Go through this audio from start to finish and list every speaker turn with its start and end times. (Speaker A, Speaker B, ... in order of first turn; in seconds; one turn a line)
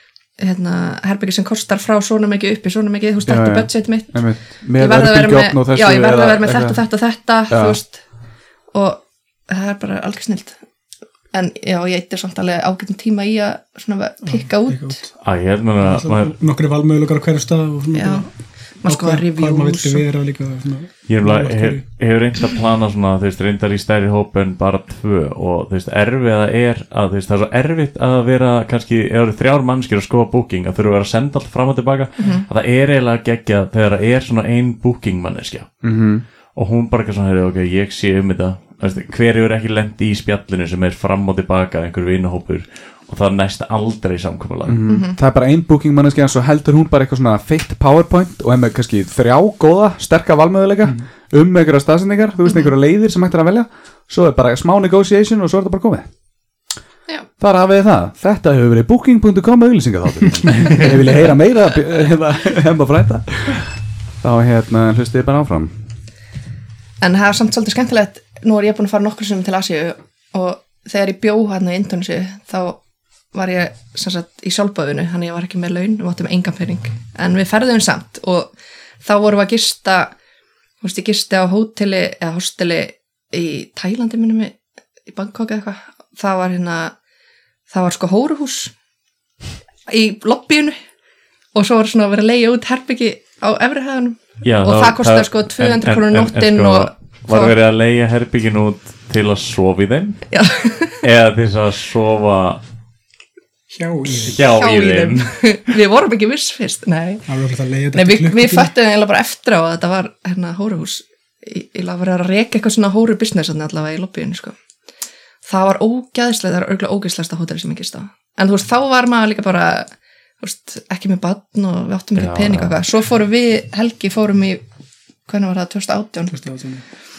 Speaker A: 0.4-4.2
Speaker B: 3.3-6.8
Speaker A: 4.8-8.0
Speaker B: 7.5-7.8
Speaker A: 8.7-10.6
Speaker A: 11.3-15.0
Speaker C: 14.2-15.1
Speaker D: 15.2-16.3
Speaker C: 15.8-18.3
Speaker A: 17.9-18.3
Speaker A: 18.8-20.1
Speaker C: 18.8-21.8
Speaker D: 21.1-35.7
Speaker A: 32.2-32.5
Speaker B: 35.8-36.2
Speaker D: 36.5-44.8
Speaker B: 44.6-56.1
Speaker A: 44.9-45.2
Speaker A: 52.5-52.7
Speaker B: 57.4-65.7
Speaker A: 67.0-72.8
Speaker A: 73.3-78.5
Speaker A: 79.0-80.1
Speaker A: 80.8-84.5
Speaker A: 85.1-86.9
Speaker A: 87.7-88.7
Speaker A: 89.9-90.8
Speaker A: 91.5-97.5
Speaker D: 94.4-100.2
Speaker A: 100.3-101.0
Speaker D: 101.0-102.6
Speaker C: 103.7-104.4
Speaker D: 104.2-105.3
Speaker A: 104.4-107.2
Speaker C: 107.3-108.7
Speaker A: 107.9-114.5
Speaker A: 115.4-119.9
Speaker A: 120.4-124.6
Speaker D: 122.2-122.8
Speaker A: 125.3-126.3
Speaker C: 126.3-126.8